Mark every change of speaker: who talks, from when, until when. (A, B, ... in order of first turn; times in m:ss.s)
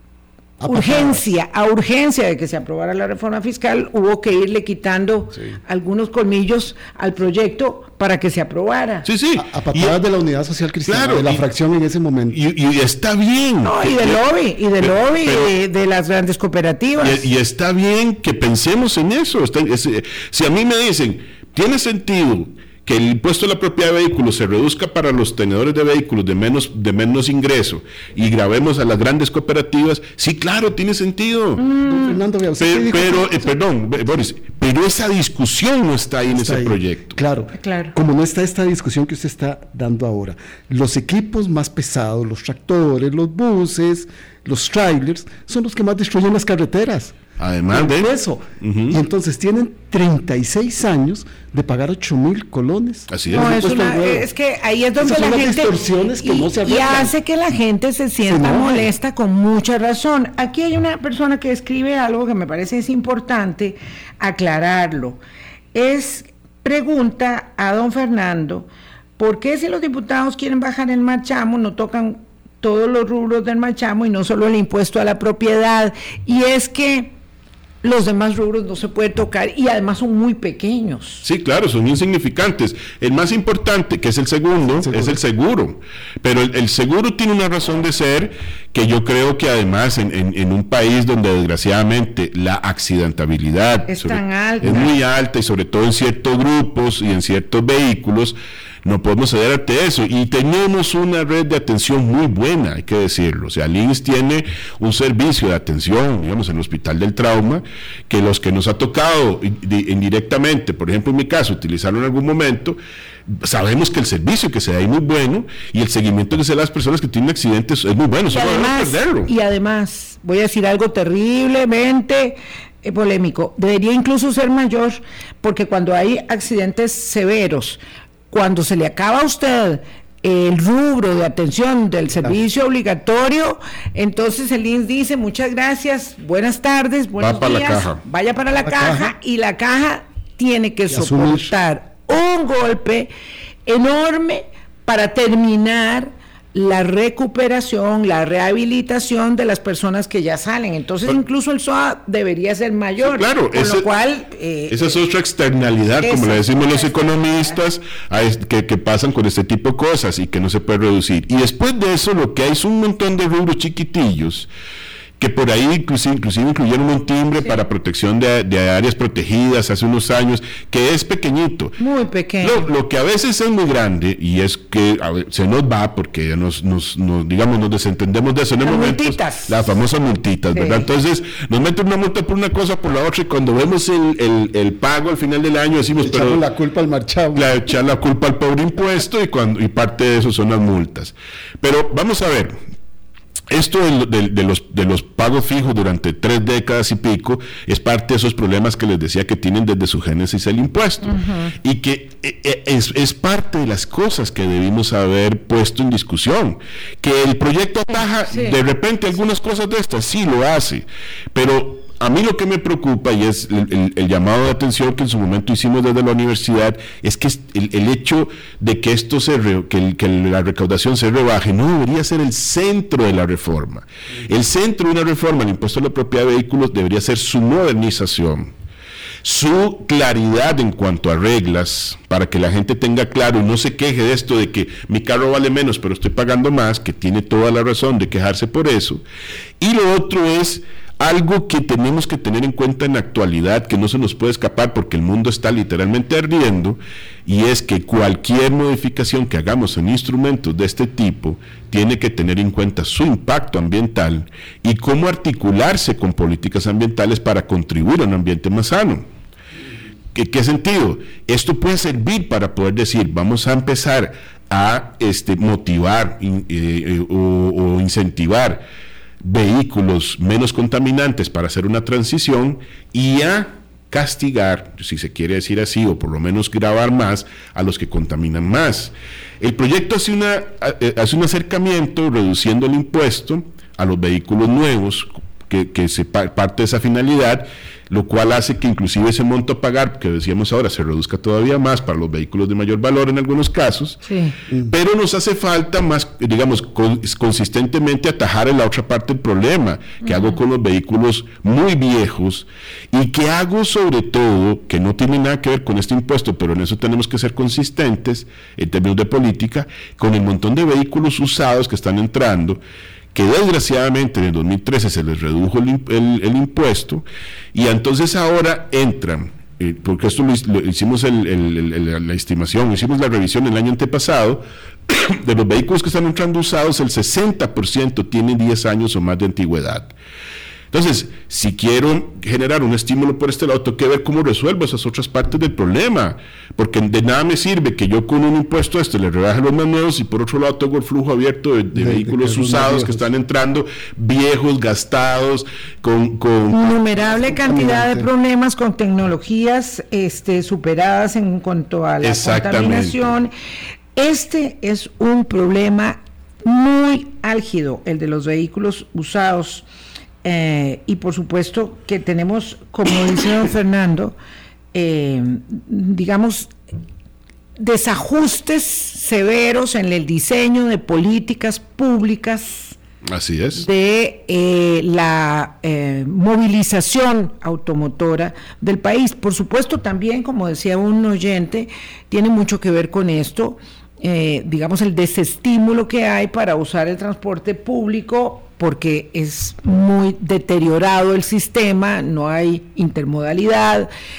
0:00.6-0:01.3 A
0:00.7-0:09.0 B
0:09.0-0:10.0 C
0:09.4-0:12.4 A
0:10.8-0:11.4 C
0:12.3-0:14.2 C
0:13.6-0:17.3 B
0:14.8-0:15.5 C
0:17.0-0:31.6 C
0:31.6-0:32.2 B
0:31.8-0:33.5 A
0:32.6-0:37.2 C
0:36.3-0:47.2 A
0:37.6-0:37.9 B
0:47.4-0:48.1 C
0:47.7-0:54.3 A
0:48.6-0:49.0 C
0:53.1-0:53.6 C
0:53.3-1:05.2 B
0:55.0-0:57.1 A
0:58.3-0:58.9 A
1:05.7-1:17.1 B
1:17.8-1:21.2 B
1:21.2-1:59.3 C
1:24.8-1:25.2 A
1:33.9-1:34.9 B
1:58.3-2:23.1 B
2:17.2-2:18.0 C
2:18.6-2:19.1 A
2:20.9-2:21.5 A
2:23.6-2:35.0 B
2:33.0-2:33.9 C
2:34.7-2:44.5 C
2:36.0-2:37.6 B
2:45.2-2:51.8 C
2:51.8-2:52.7 B
2:52.4-3:06.4 C
2:58.6-2:59.6 B
3:00.5-3:00.8 B
3:06.0-3:07.6 A
3:07.3-3:12.6 C
3:13.5-3:48.5 C
3:21.0-3:21.5 B
3:28.3-3:28.6 B
3:49.2-3:59.0 C
3:59.6-4:19.0 C
4:20.1-4:28.6 C
4:29.2-5:12.6 C
4:54.1-4:54.3 B
5:00.0-5:00.4 B
5:13.1-5:29.9 C
5:30.7-5:46.8 C
5:41.7-5:43.0 A
5:46.5-5:53.3 B
5:47.4-5:48.1 A
5:52.0-5:53.0 C
5:53.9-5:59.6 B
6:00.2-6:04.2 B
6:04.7-6:06.5 B
6:07.6-6:12.8 B
6:13.1-6:13.6 C
6:13.6-6:33.9 B